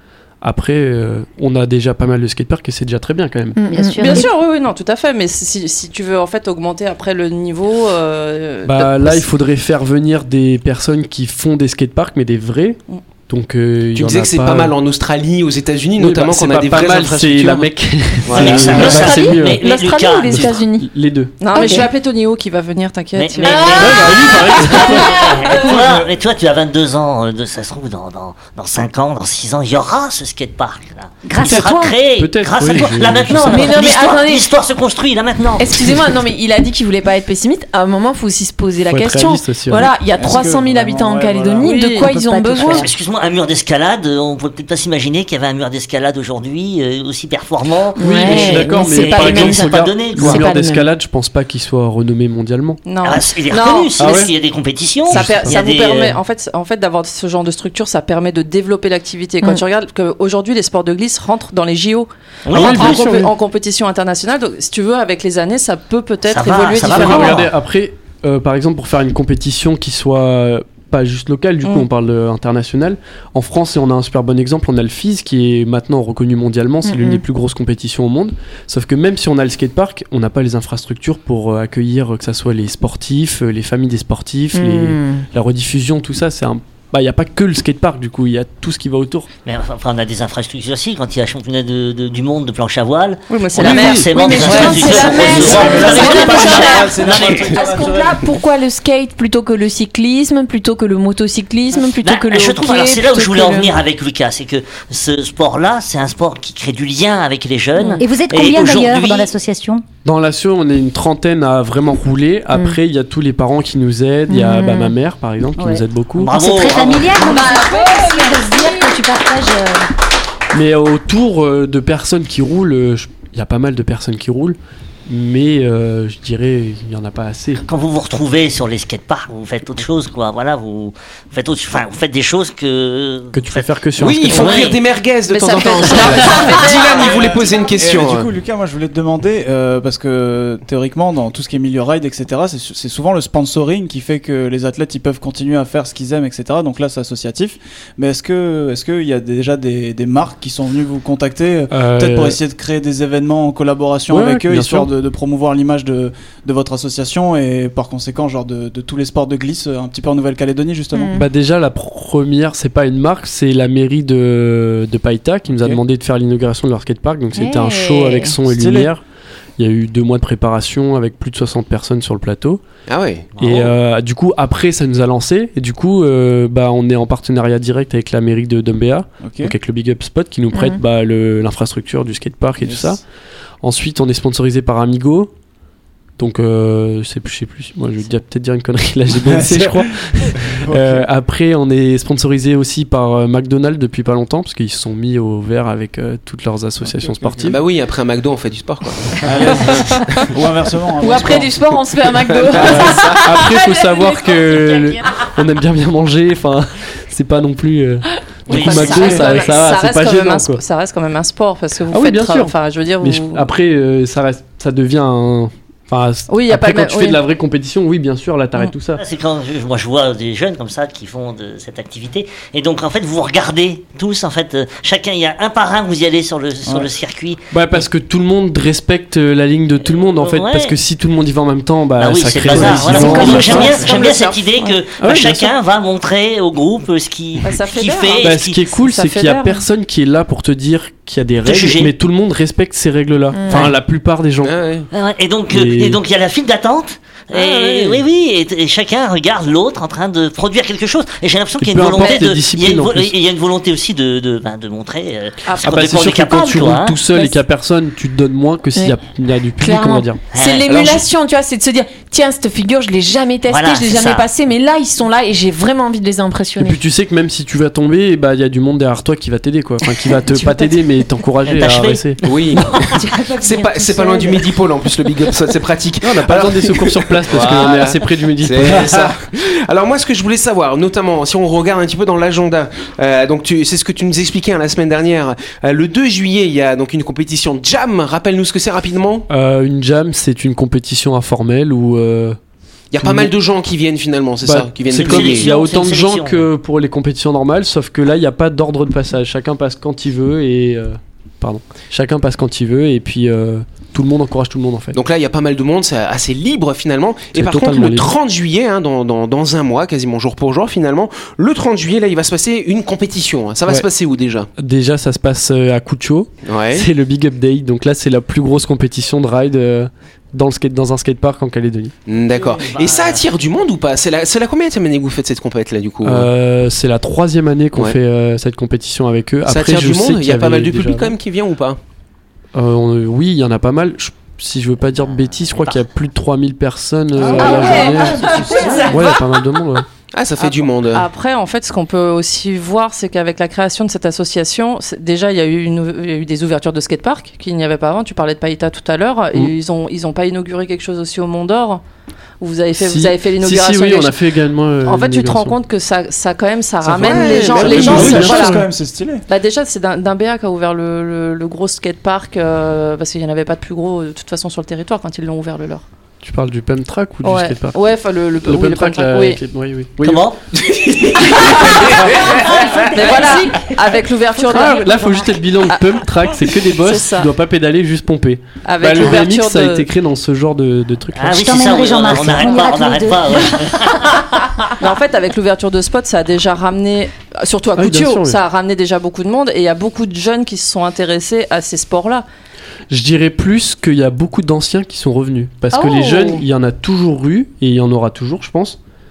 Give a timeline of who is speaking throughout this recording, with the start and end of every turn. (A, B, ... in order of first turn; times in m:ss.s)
0:00.4-0:03.6 A
0:03.6-0:04.2 B
0:03.7-0:04.3 C
0:04.0-0:09.2 D
0:08.6-0:14.8 A
0:14.0-0:17.7 E
0:16.0-0:19.6 A
0:18.2-0:19.0 E
0:18.3-0:20.6 F
0:18.8-0:20.9 B
0:20.3-0:21.4 A
0:21.4-0:24.0 D
0:21.6-0:21.8 C
0:23.2-0:36.0 F
0:23.5-0:24.7 B
0:23.7-0:26.0 A
0:25.5-0:25.8 D
0:31.3-0:32.0 C
0:31.4-0:33.8 A
0:33.5-0:34.6 B
0:35.6-0:42.9 B
0:38.9-0:39.9 A
0:39.7-0:42.8 G
0:41.7-0:42.7 D
0:42.6-0:50.5 F
0:48.0-0:50.9 B
0:48.0-0:52.8 A
0:52.8-0:53.3 D
0:53.0-0:56.2 F
0:53.5-0:53.8 B
0:54.0-0:54.3 A
0:55.1-1:07.5 D
0:55.1-0:55.6 A
1:02.5-1:03.1 F
1:02.5-1:03.3 A
1:06.3-1:07.5 F
1:06.8-1:29.3 A
1:16.9-1:17.2 B
1:24.5-1:25.2 B
1:29.4-1:37.6 F
1:33.3-1:35.2 D
1:33.7-1:38.2 G
1:34.0-1:43.8 B
1:37.2-1:37.6 E
1:41.8-1:49.3 F
1:48.0-1:49.8 C
1:50.0-1:56.4 A
1:54.5-1:54.9 C
1:55.6-1:59.9 C
1:56.2-1:57.2 F
1:57.1-1:59.0 B
2:00.5-2:07.6 A
2:07.6-2:13.7 F
2:13.3-2:14.7 A
2:14.0-2:18.3 E
2:14.3-2:14.8 F
2:15.2-2:17.2 D
2:16.6-2:41.2 G
2:31.7-2:32.4 A
2:34.1-2:34.9 A
2:40.9-2:41.2 B
2:41.1-2:49.0 A
2:45.5-2:45.8 G
2:47.3-2:48.4 B
2:48.4-2:48.9 G
2:49.6-2:52.6 A
2:52.9-2:53.6 E
2:53.4-2:53.7 F
2:53.4-3:03.0 A
2:59.2-2:59.5 G
3:00.5-3:00.8 B
3:02.6-3:03.0 G
3:03.6-3:05.3 A
3:06.2-3:17.6 A
3:09.1-3:11.1 G
3:16.8-3:17.6 G
3:17.5-3:19.6 E
3:19.2-3:21.7 G
3:21.0-3:25.0 B
3:21.6-3:23.2 E
3:22.8-3:30.6 A
3:28.5-3:33.5 D
3:28.5-3:28.9 F
3:28.8-3:29.4 G
3:28.8-3:29.4 B
3:31.9-3:39.0 A
3:36.3-3:37.2 D
3:39.0-3:47.9 F
3:46.6-3:46.9 G
3:47.5-3:53.8 A
3:49.8-3:50.8 F
3:52.0-3:58.6 F
3:52.6-3:53.8 C
3:53.8-3:54.8 D
3:55.0-3:55.5 A
3:57.4-3:59.6 D
3:58.2-4:04.6 A
4:01.4-4:01.9 F
4:03.3-4:03.7 B
4:04.4-4:04.9 E
4:04.9-4:17.0 F
4:05.5-4:06.0 A
4:07.5-4:08.0 B
4:11.6-4:13.2 A
4:15.6-4:20.2 A
4:19.6-4:26.8 B
4:20.3-4:20.7 F
4:20.7-4:21.0 E
4:23.5-4:24.3 F
4:26.6-4:32.3 A
4:30.4-4:30.7 B
4:31.5-4:32.9 F
4:32.2-4:32.8 E
4:33.0-4:34.5 B
4:33.4-4:49.3 E
4:36.0-4:39.1 A
4:49.3-4:52.4 A
4:52.9-4:55.5 E
4:53.0-4:53.3 A
4:54.4-5:05.0 A
4:55.0-4:56.5 F
5:04.9-5:14.5 E
5:07.3-5:08.1 A
5:14.6-5:21.9 A
5:16.5-5:16.9 E
5:22.1-5:26.3 E
5:22.3-5:23.3 F
5:26.0-5:31.1 A
5:29.5-5:31.8 E
5:32.5-5:39.9 A
5:35.0-5:35.9 F
5:37.2-5:39.0 B
5:37.2-5:38.9 G
5:40.1-5:41.1 E
5:40.4-5:51.8 D
5:52.4-5:54.2 D
5:52.8-5:55.6 A
5:54.8-5:58.6 D
5:56.8-5:59.2 G
5:57.0-5:58.5 E
5:57.8-5:58.7 A
5:59.3-6:05.8 D
6:06.2-6:07.8 A
6:07.2-6:09.4 D
6:08.4-6:10.3 A
6:10.0-6:10.4 F
6:12.5-6:13.4 F
6:12.9-6:14.9 D
6:14.5-6:21.5 A
6:14.5-6:15.3 C
6:15.7-6:17.3 D
6:18.6-6:19.9 D
6:21.2-6:24.2 F
6:21.3-6:23.6 C
6:24.8-6:32.2 D
6:27.8-6:28.4 A
6:32.9-6:38.8 A
6:35.7-6:36.1 C